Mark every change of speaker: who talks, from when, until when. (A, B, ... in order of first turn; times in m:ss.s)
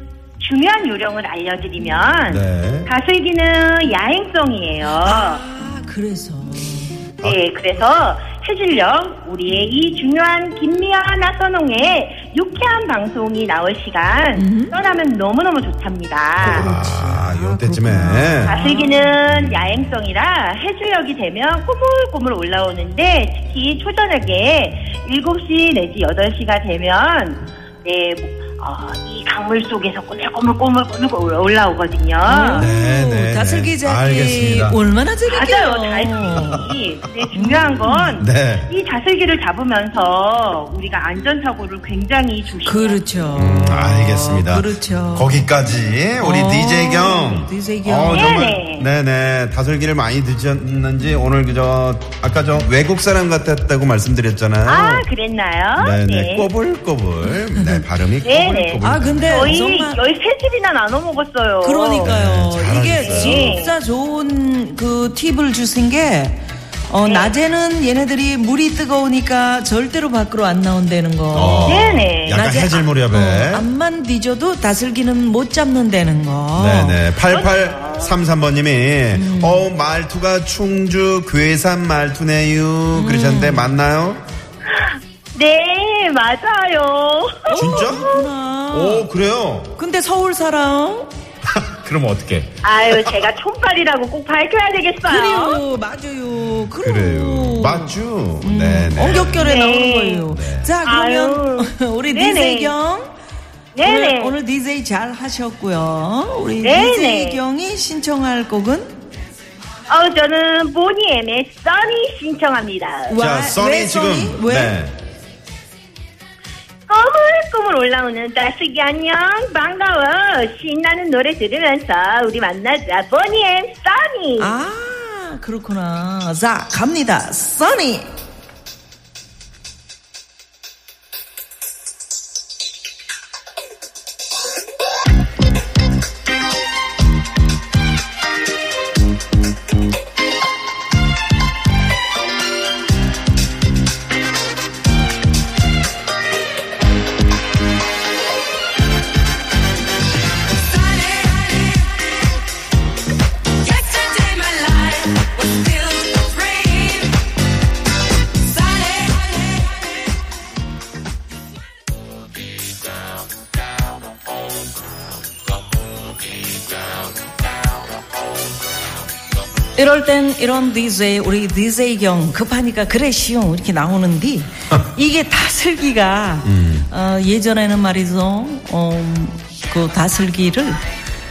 0:00.4-0:05.4 A
0:02.3-0:02.9 B
0:05.0-0:07.0 C
0:07.2-0:16.7 A
0:14.4-0:14.7 C
0:16.4-0:18.6 B
0:16.4-0:19.2 C
0:18.5-0:32.7 A
0:32.3-0:36.6 C
0:32.6-0:34.8 B
0:35.3-0:43.1 A
0:36.4-0:36.6 B
0:37.3-0:38.2 C
0:38.2-0:38.7 B
0:42.6-0:45.5 C
0:43.4-0:55.1 B
0:46.2-0:48.4 C
0:48.1-0:48.9 A
0:54.7-0:56.5 A
0:55.8-0:59.6 B
0:57.2-0:57.8 C
0:58.2-1:02.1 A
0:58.8-1:00.0 C
1:01.6-1:17.0 C
1:02.0-1:03.5 B
1:03.0-1:03.8 A
1:07.0-1:07.3 A
1:11.3-1:13.7 B
1:11.6-1:12.5 A
1:16.6-1:24.2 B
1:17.3-1:18.2 A
1:19.1-1:19.7 C
1:22.9-1:23.7 C
1:25.3-1:28.2 A
1:27.5-1:29.1 C
1:27.5-1:28.1 B
1:28.7-1:29.8 B
1:29.8-1:31.1 C
1:31.5-1:33.3 B
1:32.6-1:35.6 A
1:35.0-1:43.1 C
1:36.8-1:39.5 B
1:39.4-1:40.3 A
1:40.3-1:40.7 B
1:40.8-1:42.8 A
1:43.8-1:44.4 A
1:43.8-1:49.0 C
1:46.6-1:47.4 A
1:49.9-1:53.2 A
1:53.1-1:54.8 C
1:53.2-1:55.0 B
1:56.9-2:04.5 A
2:04.4-2:08.1 C
2:33.7-2:37.1 C
2:49.8-3:00.8 C
2:56.4-2:56.9 B